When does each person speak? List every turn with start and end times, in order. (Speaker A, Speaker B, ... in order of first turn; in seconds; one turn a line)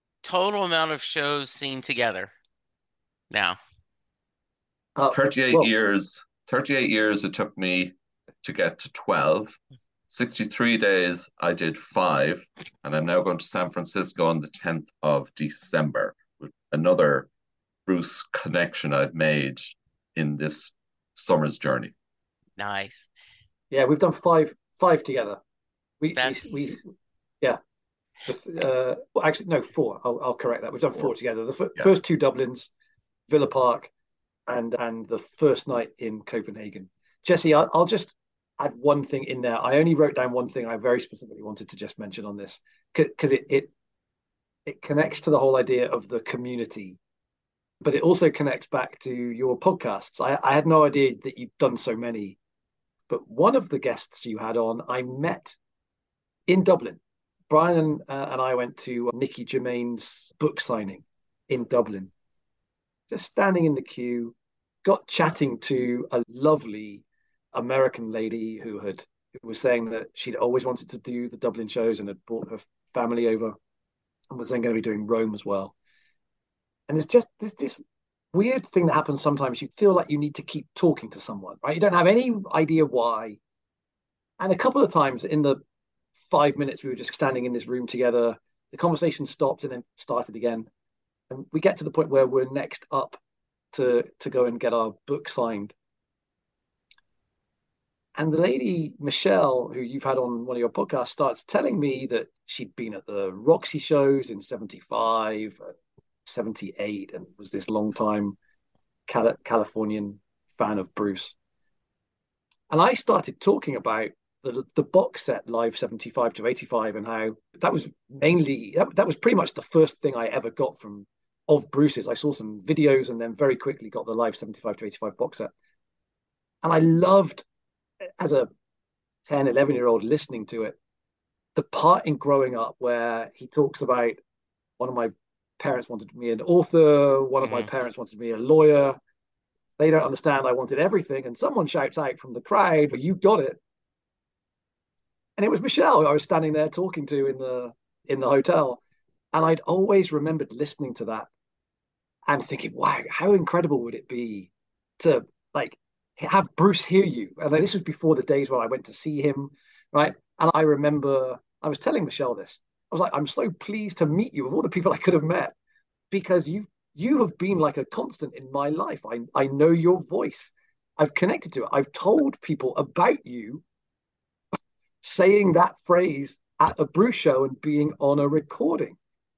Speaker A: 0.2-2.3
Speaker A: 3.3-3.6
Speaker B: 5.0-5.7
Speaker C: 5.1-9.6
Speaker C: 10.1-17.3
Speaker C: 17.9-21.9
Speaker A: 22.6-23.1
Speaker B: 23.7-25.4
Speaker B: 26.0-26.8
Speaker A: 26.2-26.7
Speaker B: 28.3-32.7
Speaker B: 33.3-33.9
Speaker B: 34.5-43.7
Speaker B: 44.7-47.0
Speaker B: 47.8-52.4
Speaker B: 53.1-55.6
Speaker B: 56.5-57.0
Speaker B: 57.5-62.1
Speaker B: 63.1-73.5
Speaker B: 74.3-75.7
Speaker B: 76.9-77.8
Speaker B: 78.3-83.4
Speaker B: 84.4-85.6
Speaker B: 86.2-90.7
Speaker B: 91.3-93.2
Speaker B: 93.7-95.7
Speaker B: 98.2-105.6
Speaker B: 106.3-108.4
Speaker B: 109.1-111.3
Speaker B: 112.7-125.5
Speaker B: 126.6-127.5
Speaker B: 128.2-128.5
Speaker B: 129.3-130.8
Speaker B: 131.6-134.2
Speaker B: 134.8-139.0
Speaker A: 137.4-137.7
Speaker B: 139.8-143.6
Speaker B: 145.4-148.8
Speaker B: 149.3-151.3
Speaker B: 152.3-165.6
Speaker B: 166.1-173.6
Speaker B: 175.0-179.0